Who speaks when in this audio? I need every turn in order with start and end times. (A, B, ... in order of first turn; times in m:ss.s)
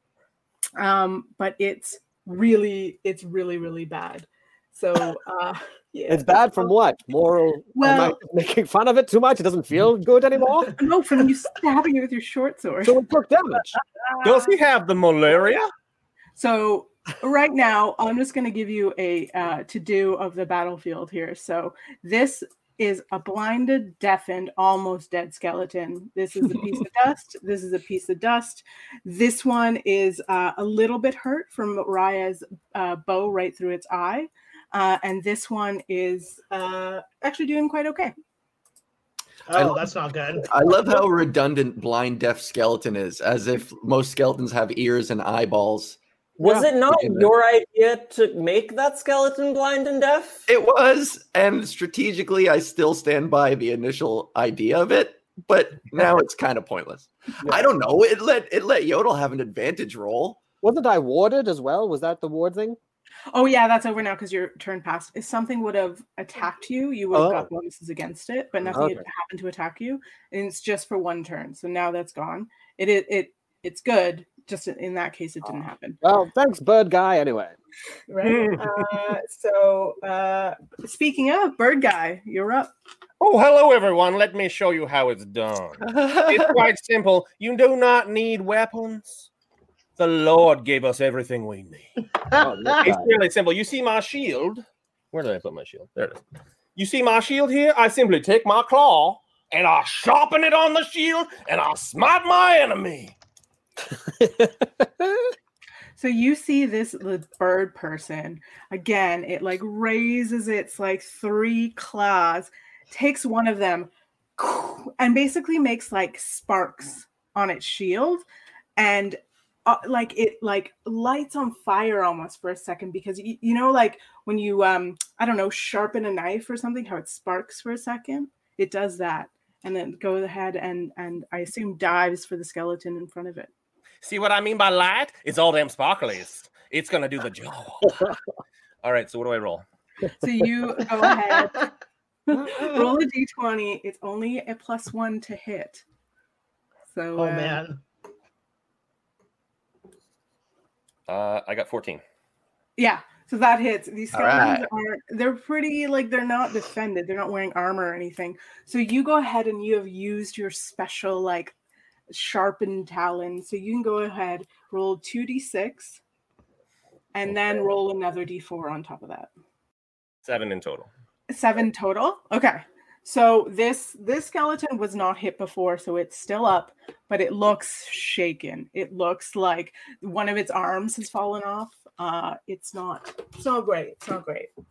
0:00.8-0:06.7 A
0:06.1-0:10.8 B
0:07.8-0:08.2 A
0:10.8-0:13.0 A
0:12.8-0:13.7 B
0:14.1-0:14.5 A
0:14.2-0:15.6 C
0:16.4-0:38.1 A
0:39.5-0:40.5 D
0:39.5-0:39.9 E
0:40.4-0:46.0 E
0:46.4-0:50.4 F
0:46.4-0:46.7 B
0:46.8-0:47.3 E
0:50.5-1:00.4 E
0:57.4-0:57.7 B
1:00.6-1:02.8 B
1:03.3-1:16.0 A
1:07.1-1:07.5 B
1:08.7-1:09.0 B
1:16.0-1:17.6 B
1:18.1-1:22.7 A
1:18.2-1:18.7 C
1:23.2-1:29.3 C
1:25.8-1:26.5 E
1:30.0-1:31.9 C
1:32.3-1:33.1 B
1:32.7-1:36.2 C
1:36.8-1:43.1 C
1:44.0-1:45.3 B
1:46.0-1:58.2 A
1:58.8-2:13.5 A
2:14.0-2:18.1 C
2:18.8-2:19.6 C
2:20.2-2:21.7 A
2:21.1-2:21.4 D
2:22.3-2:25.8 A
2:26.9-2:27.6 A
2:27.2-2:27.8 D
2:31.1-2:32.0 C
2:32.8-2:41.5 A
2:34.1-2:34.7 E
2:42.1-2:46.0 A
2:47.1-2:49.3 A
2:50.2-2:50.9 C
2:51.3-3:04.5 A